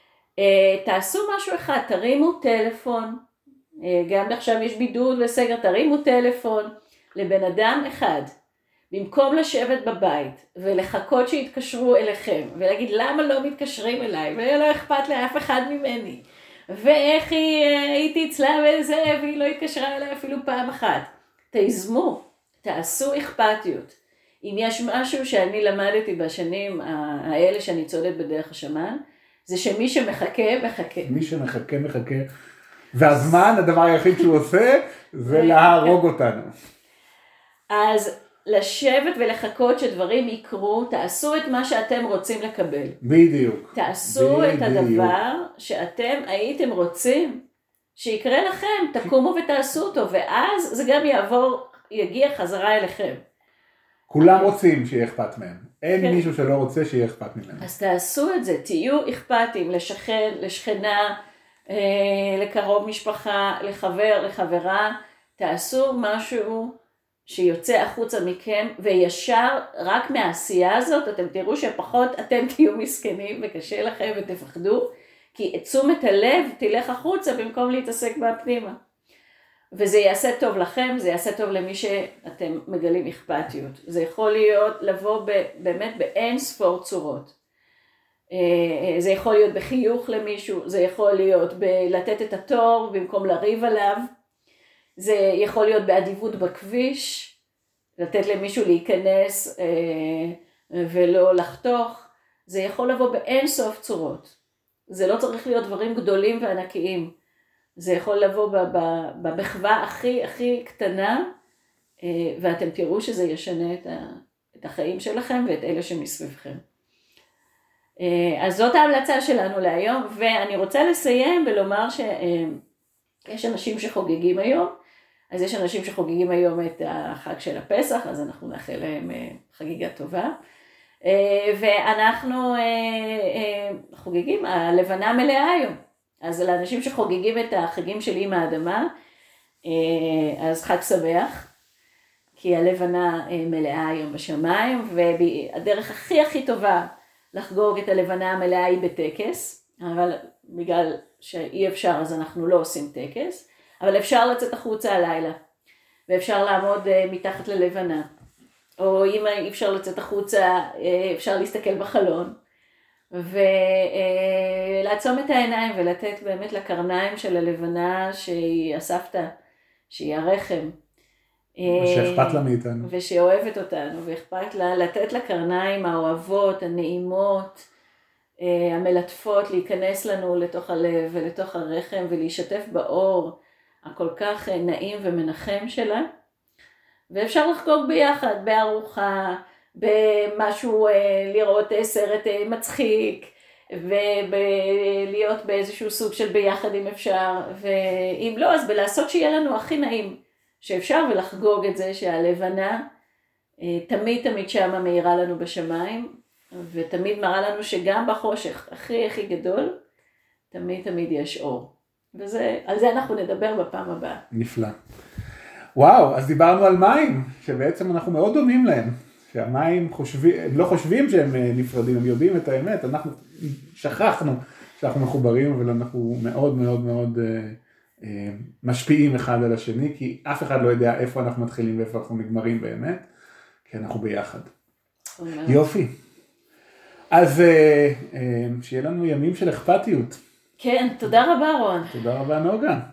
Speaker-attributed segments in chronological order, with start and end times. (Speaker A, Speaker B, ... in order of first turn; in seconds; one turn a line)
Speaker A: 0.4-3.2
Speaker A: 3.8-8.3
Speaker A: 8.9-31.1
Speaker B: 31.0-32.3
Speaker B: 32.9-36.5
Speaker A: 35.3-36.0
Speaker A: 37.7-43.0
Speaker B: 43.0-45.1
Speaker A: 43.7-47.4
Speaker A: 48.0-53.2
Speaker B: 54.1-57.7
Speaker A: 54.2-54.5
Speaker A: 55.9-56.3
Speaker A: 57.6-61.2
Speaker A: 61.7-66.7
Speaker A: 67.3-78.8
Speaker A: 79.7-87.3
Speaker A: 88.3-94.0
Speaker A: 95.0-97.4
Speaker A: 98.0-104.4
Speaker A: 104.9-107.1
Speaker A: 107.8-111.2
Speaker A: 112.0-116.6
Speaker A: 118.0-122.6
Speaker A: 123.3-124.7
Speaker A: 125.3-130.3
Speaker A: 131.0-138.9
Speaker A: 139.7-141.5
Speaker A: 142.4-155.4
Speaker A: 156.1-158.1
Speaker A: 158.8-162.3
Speaker A: 163.1-169.3
Speaker A: 169.9-170.7
Speaker A: 171.6-177.7
Speaker B: 171.7-172.9
Speaker A: 178.4-186.1
Speaker A: 187.1-202.8
Speaker A: 203.6-209.7
Speaker A: 210.5-214.2
Speaker B: 214.3-214.8
Speaker B: 215.8-233.1
Speaker B: 233.7-234.5
Speaker A: 235.2-235.6
Speaker B: 235.5-235.9
Speaker B: 237.1-240.2
Speaker A: 240.6-241.9
Speaker B: 241.9-242.8